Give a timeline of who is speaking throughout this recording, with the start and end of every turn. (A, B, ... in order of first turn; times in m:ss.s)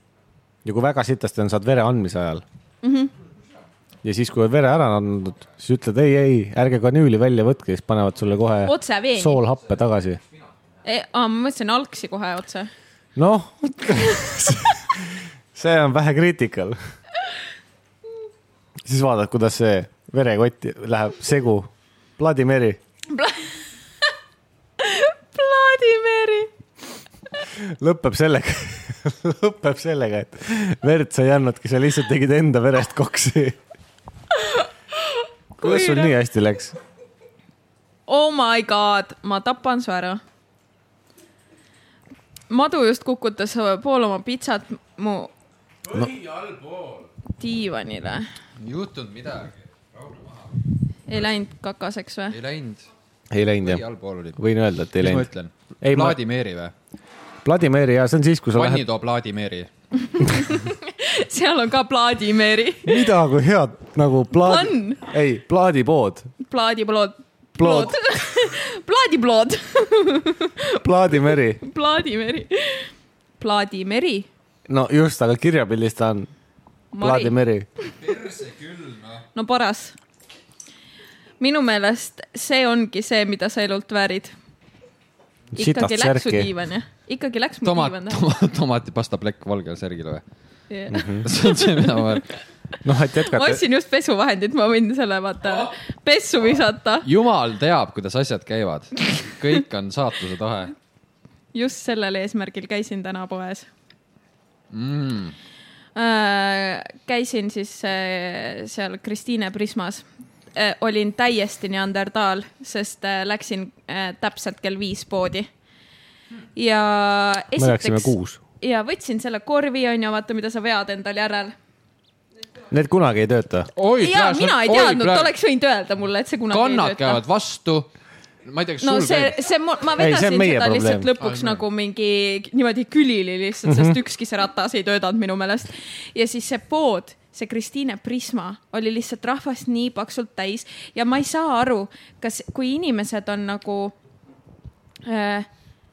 0:00.6-0:02.4 A
0:02.8-0:03.1 B
0:04.0-0:10.2 A
0:08.6-0:09.4 B
0:10.8-0:12.7 B
0:13.2-0:16.8 A
0:18.8-0:22.8 A
0:23.1-0:23.5 B
0:24.8-0:26.5 B
0:27.5-0:33.6 A
0:34.3-0:36.1 B
0:35.6-0:36.7 A
0:38.1-0:40.2 B
0:42.5-0:45.3 B
0:45.9-0:47.1 C
0:47.4-0:48.3 B
0:48.6-0:50.6 C
0:51.1-0:52.4 B
0:52.3-0:52.9 C
0:53.3-0:53.8 A
0:53.6-0:54.4 C
0:54.4-0:55.3 A
0:55.0-0:56.7 C
0:55.8-0:56.2 A
0:57.4-0:58.8 A
0:58.5-0:59.7 C
1:00.1-1:03.1 B
1:02.8-1:06.3 A
1:04.3-1:05.1 B
1:06.5-1:14.3 B
1:07.6-1:08.0 A
1:10.8-1:11.6 A
1:14.7-1:16.3 A
1:16.9-1:17.4 B
1:17.0-1:17.7 A
1:18.0-1:19.2 C
1:19.3-1:19.9 B
1:21.4-1:24.3 B
1:25.5-1:26.5 A
1:25.6-1:28.2 B
1:27.6-1:30.2 C
1:30.7-1:32.2 B
1:30.9-1:31.3 A
1:31.2-1:32.2 C
1:32.8-1:33.6 A
1:33.2-1:37.1 B
1:37.0-1:40.7 C
1:41.5-1:43.7 B
1:44.7-1:45.3 C
1:45.9-1:55.5 B
1:56.5-2:01.5 B
1:57.6-1:58.4 A
2:02.7-2:03.7 A
2:03.8-2:05.3 C
2:04.0-2:07.2 B
2:06.5-2:07.9 C
2:08.4-2:09.4 C
2:08.8-2:23.9 B
2:10.0-2:11.1 A
2:11.2-2:11.6 C
2:13.6-2:14.0 A
2:25.0-2:25.5 B